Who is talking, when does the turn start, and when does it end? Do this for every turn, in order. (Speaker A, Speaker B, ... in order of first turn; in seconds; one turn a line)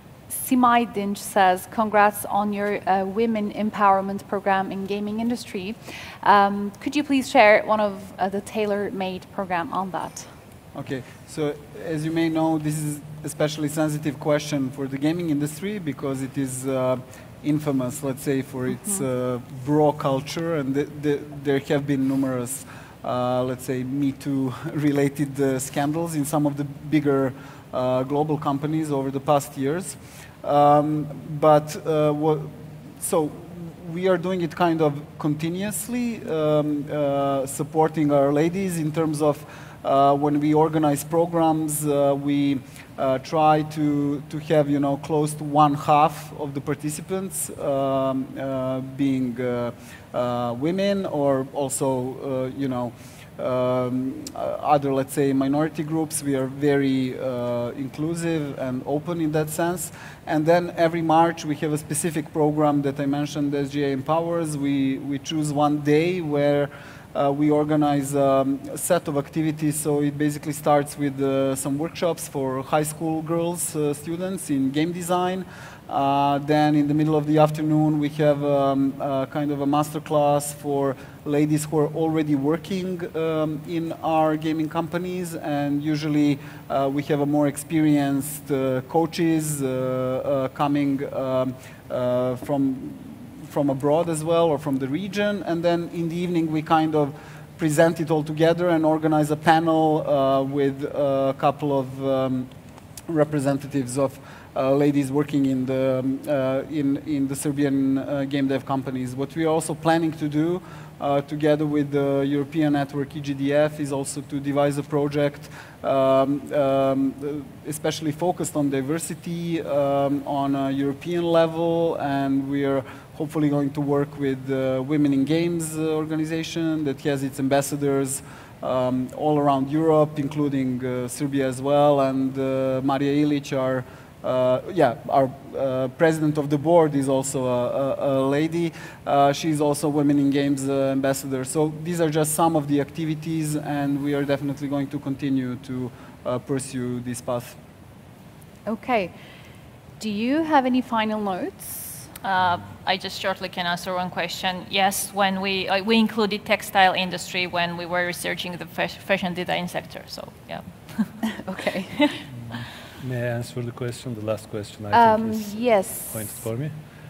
Speaker A: 0.3-10.3
Speaker B: 10.8-102.5
Speaker B: 103.1-147.6
Speaker A: 148.7-149.1
Speaker A: 150.0-152.1
Speaker C: 152.2-161.3
Speaker A: 161.3-162.2
Speaker D: 162.3-166.8
Speaker A: 164.9-166.5